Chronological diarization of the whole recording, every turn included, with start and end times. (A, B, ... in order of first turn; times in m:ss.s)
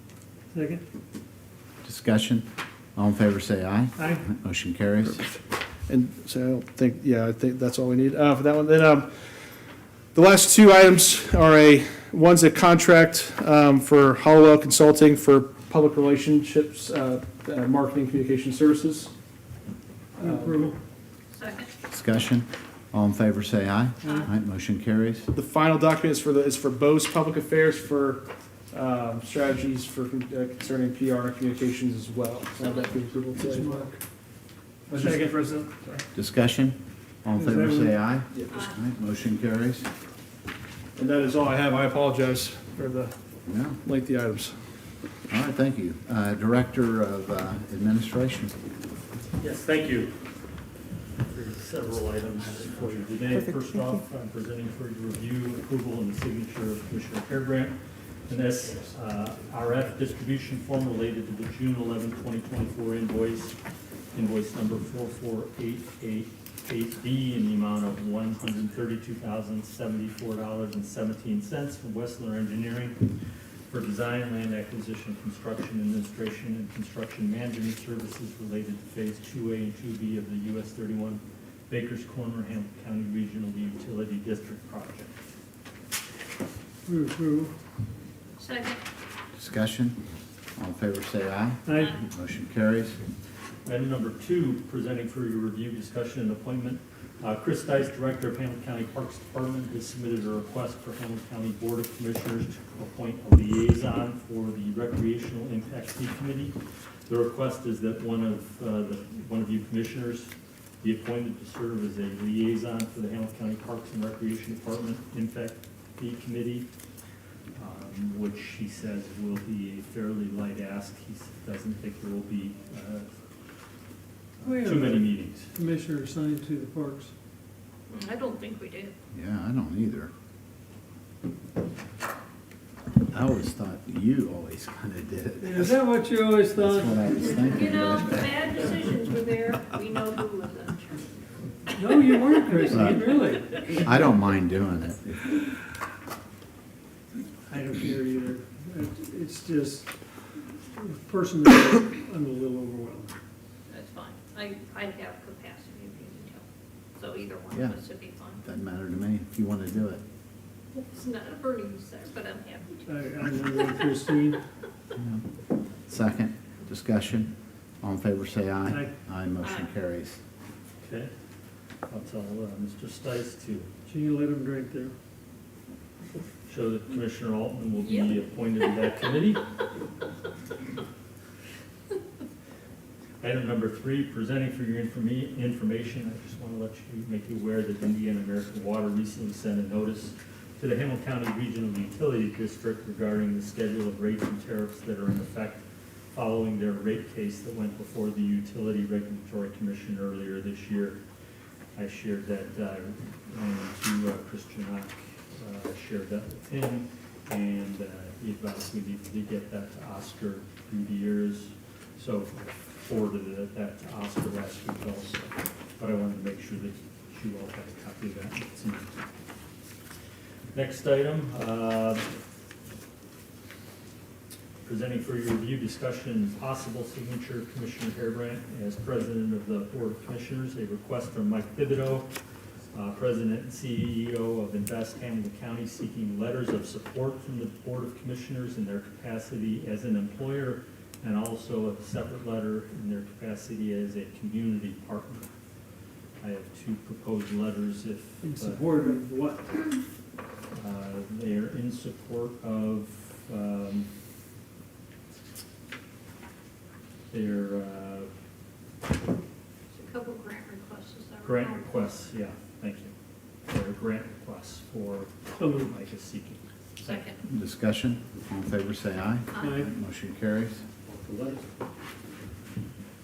0:00.5-0:00.8 A
0:01.8-0:05.3 B
0:04.0-0:04.2 A
0:05.9-0:09.3 C
0:10.1-0:19.1 C
0:20.2-0:20.8 A
0:20.2-0:20.6 C
0:21.3-0:21.7 D
0:21.9-0:25.3 B
0:25.3-0:33.9 C
0:33.4-0:34.0 A
0:34.9-0:36.0 C
0:34.9-0:35.7 A
0:36.1-0:39.9 B
0:37.4-0:38.0 A
0:41.0-0:43.1 C
0:43.4-0:43.8 B
0:43.8-0:44.5 C
0:45.3-0:48.6 B
0:49.4-0:50.1 E
0:51.2-1:03.6 E
1:04.1-1:13.1 E
1:13.7-1:25.1 E
1:26.8-1:27.5 A
1:28.4-1:28.8 D
1:29.4-1:30.0 B
1:30.6-1:33.0 B
1:31.6-1:32.0 A
1:31.8-1:32.0 D
1:33.6-1:56.7 E
1:57.5-2:03.1 E
2:04.4-2:05.5 E
2:04.4-2:07.1 A
2:07.9-2:08.9 D
2:09.1-2:10.1 B
2:13.1-2:18.4 B
2:15.4-2:17.2 A
2:17.2-2:21.0 D
2:21.7-2:23.7 A
2:22.7-2:23.0 B
2:23.6-2:25.4 B
2:27.5-2:29.9 A
2:30.7-2:33.2 A
2:33.7-2:36.4 D
2:37.0-2:38.4 D
2:37.5-2:37.8 B
2:38.4-2:40.0 B
2:40.7-2:42.9 D
2:42.8-2:44.4 A
2:43.5-2:43.9 D
2:45.0-2:45.2 B
2:45.9-2:50.2 B
2:48.6-2:48.9 A
2:49.4-2:49.7 D
2:50.8-2:51.1 E
2:51.9-2:53.7 E
2:53.8-2:54.9 A
2:56.4-2:59.4 E
2:57.8-2:58.1 D
3:03.2-3:15.6 E
3:16.1-3:21.0 E
3:21.7-3:39.0 E
3:40.5-3:42.1 E
3:44.6-3:52.1 E
3:52.7-4:05.3 E
4:06.2-4:08.7 E
4:08.2-4:09.7 A
4:10.5-4:13.9 E
4:17.1-4:18.1 E
4:19.7-4:21.6 D
4:21.2-4:22.9 E
4:23.5-4:27.1 E
4:25.4-4:25.7 A
4:26.8-4:27.2 D
4:27.3-4:30.6 B
4:29.3-4:29.6 D
4:29.4-4:29.7 A
4:30.8-4:31.4 E